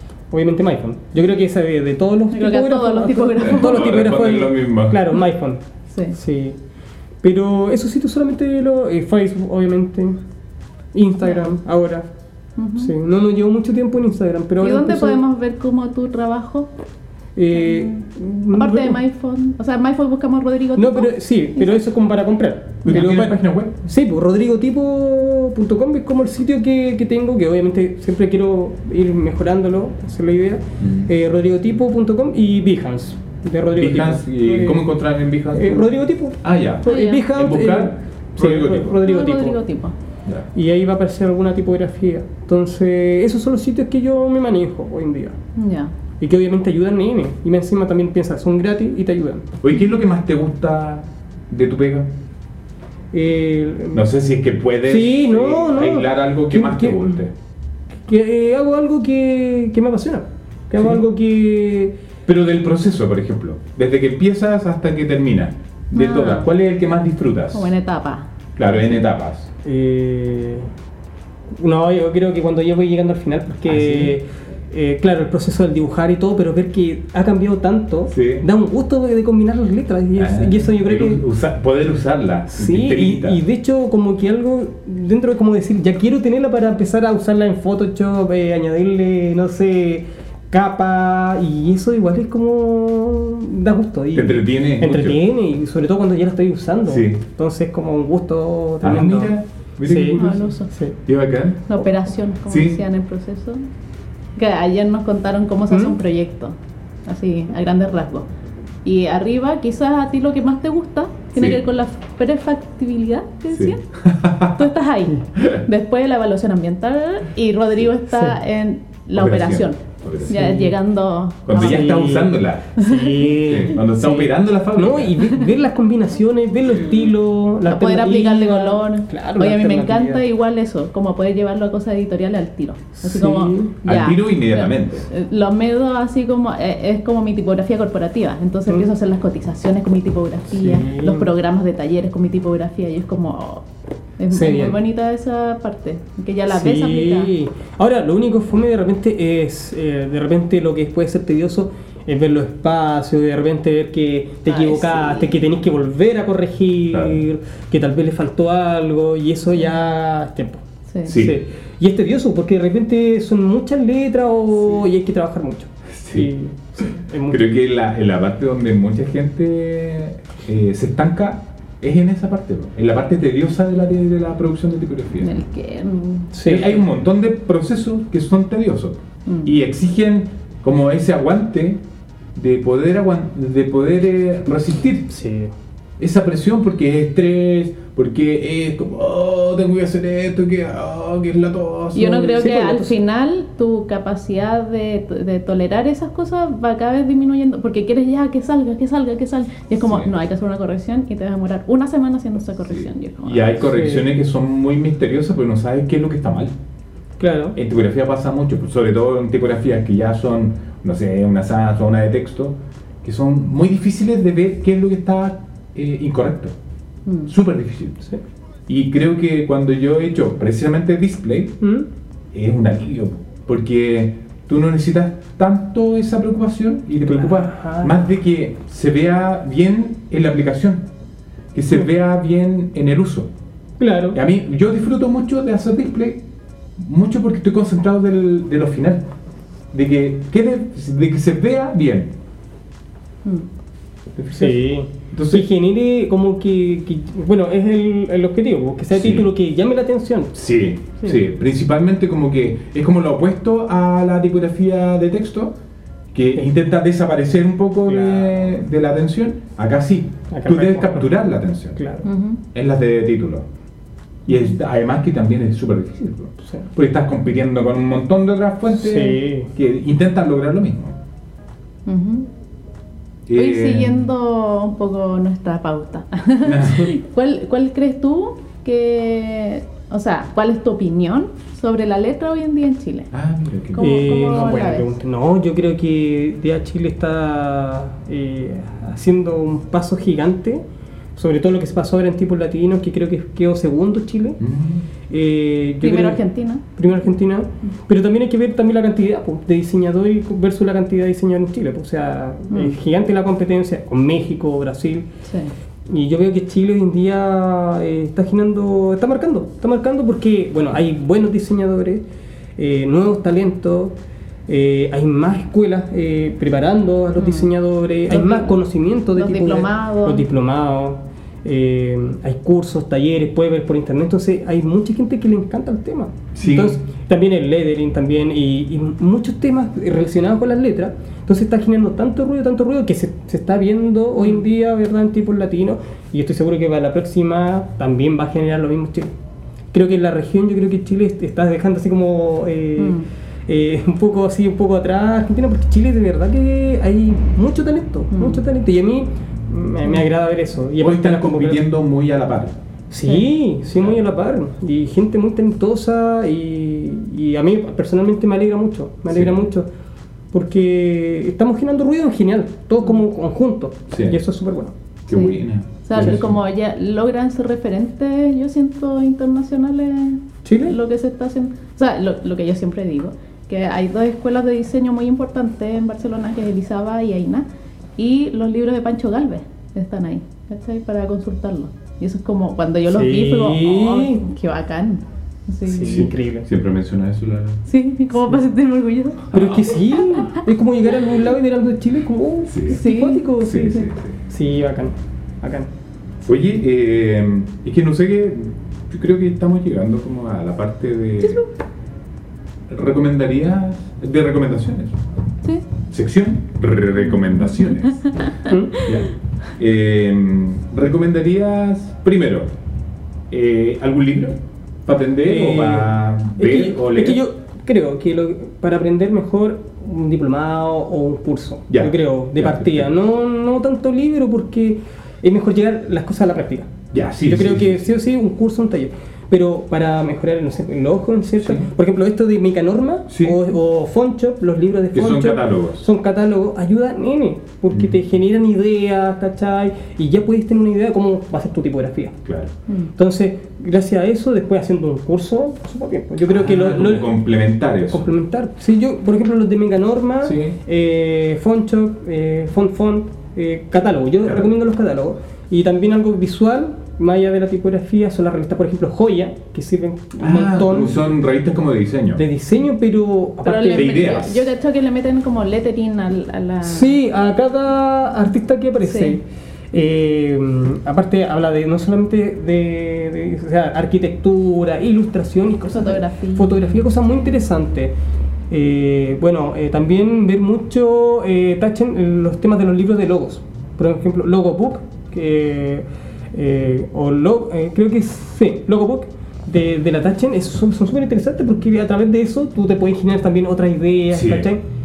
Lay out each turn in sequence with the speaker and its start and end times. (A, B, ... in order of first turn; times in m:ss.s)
0:00.3-0:06.6 A
0:02.3-0:04.0 B
0:03.4-0:05.2 C
0:07.2-0:10.2 A
0:10.9-0:12.1 A
0:12.6-0:13.0 B
0:12.8-0:15.2 A
0:14.6-0:16.7 B
0:17.4-0:19.0 A
0:17.5-0:21.8 B
0:20.8-0:34.9 A
0:22.9-0:23.7 C
0:30.8-0:31.1 C
0:33.8-0:39.0 C
0:35.5-0:39.6 A
0:36.9-0:37.3 B
0:39.0-0:40.0 B
0:40.5-0:45.4 A
0:45.6-0:45.9 B
0:46.2-0:49.5 A
0:49.6-0:52.1 C
0:53.1-0:54.0 A
0:53.9-0:57.3 C
0:54.9-0:57.2 A
0:58.1-1:02.0 A
1:00.8-1:01.0 C
1:02.3-1:07.7 C
1:05.9-1:06.5 B
1:07.5-1:08.3 B
1:08.6-1:09.5 C
1:09.6-1:10.7 A
1:11.5-1:21.2 A
1:13.7-1:14.1 C
1:18.1-1:18.4 C
1:20.2-1:23.4 C
1:22.5-1:40.2 A
1:34.1-1:35.2 C
1:36.9-1:37.2 C
1:38.8-1:41.7 C
1:40.2-1:40.7 B
1:40.7-1:41.0 A
1:41.7-1:43.6 B
1:42.5-1:42.8 C
1:44.4-1:46.6 B
1:45.7-1:46.0 A
1:47.1-1:48.3 B
1:48.8-1:53.8 B
1:51.4-1:51.6 C
1:53.5-1:54.7 C
1:54.5-2:01.9 B
1:58.1-1:58.4 A
1:59.1-2:00.4 C
2:00.3-2:00.8 A
2:01.5-2:02.7 C
2:01.5-2:10.2 A
2:02.8-2:03.3 B
2:03.4-2:05.3 C
2:07.7-2:23.6 B
2:12.9-2:13.8 A
2:13.8-2:15.1 C
2:20.5-2:21.3 A
2:24.2-2:27.3 B
2:24.3-2:24.8 A
2:26.5-2:47.5 A
2:34.5-2:35.4 B
2:36.9-2:37.2 C
2:40.9-2:41.2 B
2:41.0-2:41.4 C
2:45.9-2:46.3 C
2:47.3-2:55.3 C
2:55.2-2:56.3 B
2:56.3-2:56.7 A
2:56.4-3:01.8 C
2:59.3-2:59.5 B
3:02.4-3:05.1 C
3:05.1-3:05.5 A
3:06.0-3:12.3 C
3:12.0-3:23.6 B
3:12.0-3:12.9 A
3:19.8-3:20.1 C
3:22.7-3:26.5 C
3:23.6-3:24.1 A
3:27.2-3:27.6 A
3:27.6-3:36.6 C
3:37.1-3:37.3 B
3:37.3-3:38.1 C
3:38.7-3:41.6 C
3:41.6-3:41.9 A
3:42.3-3:50.9 C
3:47.1-3:47.9 A
3:51.5-3:53.3 C
3:53.8-3:54.2 A
3:54.1-3:56.2 C
3:56.8-3:59.1 C
3:59.7-4:02.1 C
4:04.2-4:04.6 C
4:04.4-4:10.4 A
4:05.1-4:05.5 C
4:08.9-4:09.3 C
4:10.4-4:15.6 C
4:16.1-4:21.8 C
4:17.9-4:18.5 A
4:20.3-4:21.1 A
4:21.8-4:22.1 A
4:22.0-4:22.4 B
4:22.5-4:23.5 C
4:24.3-4:31.0 C
4:28.7-4:29.5 A
4:31.9-4:32.3 B
4:33.3-4:34.1 C
4:33.4-4:43.1 B
4:36.4-4:36.9 C
4:43.1-4:43.9 C
4:43.8-4:44.9 B
4:43.8-4:50.6 A
4:51.2-4:54.4 A
4:54.4-4:54.8 C
4:55.1-4:56.2 A
4:55.8-4:56.6 B
4:56.8-5:05.1 A
5:02.5-5:02.8 B
5:05.3-5:05.5 B
5:05.9-5:12.0 A
5:12.6-5:14.0 A
5:14.5-5:39.1 A
5:17.2-5:17.5 B
5:18.1-5:18.6 B
5:19.1-5:20.2 B
5:26.4-5:26.8 C
5:34.2-5:34.4 B
5:39.7-5:51.6 A
5:42.8-5:43.1 B
5:48.1-5:48.4 B
5:50.8-5:52.6 C
5:52.9-5:59.7 A
5:59.1-5:59.4 C
6:00.3-6:04.7 A
6:03.9-6:04.2 C
6:05.1-6:06.4 C
6:05.1-6:17.4 B
6:10.4-6:10.8 A
6:18.0-6:26.1 B
6:22.9-6:24.3 A
6:25.7-6:26.5 A
6:25.8-6:27.6 C
6:27.7-6:30.4 B
6:29.3-6:35.7 A
6:29.3-6:29.6 C
6:32.5-6:32.8 C
6:32.7-6:33.8 B
6:33.4-6:34.2 C
6:36.2-6:41.4 C
6:41.2-6:41.5 B
6:42.7-6:45.0 C
6:45.9-6:48.0 C
6:47.1-6:48.9 B
6:48.5-6:48.9 A
6:48.8-6:52.5 C
6:53.3-6:57.2 C
6:55.2-7:06.7 A
7:01.7-7:02.9 C
7:06.9-7:08.0 C
7:07.2-7:22.2 A
7:11.4-7:11.7 C
7:13.1-7:13.4 C
7:14.9-7:15.8 C
7:17.7-7:18.0 C
7:22.2-7:22.5 C
7:23.0-7:27.2 A
7:26.3-7:28.1 C
7:27.9-7:41.0 A
7:30.2-7:30.6 C
7:40.2-7:42.2 C
7:42.2-7:44.2 A
7:43.4-7:47.0 B
7:43.7-7:44.5 C
7:46.6-7:57.9 A
7:48.8-7:49.2 B
7:55.7-7:56.6 B
7:58.5-8:14.6 A
8:14.1-8:14.5 C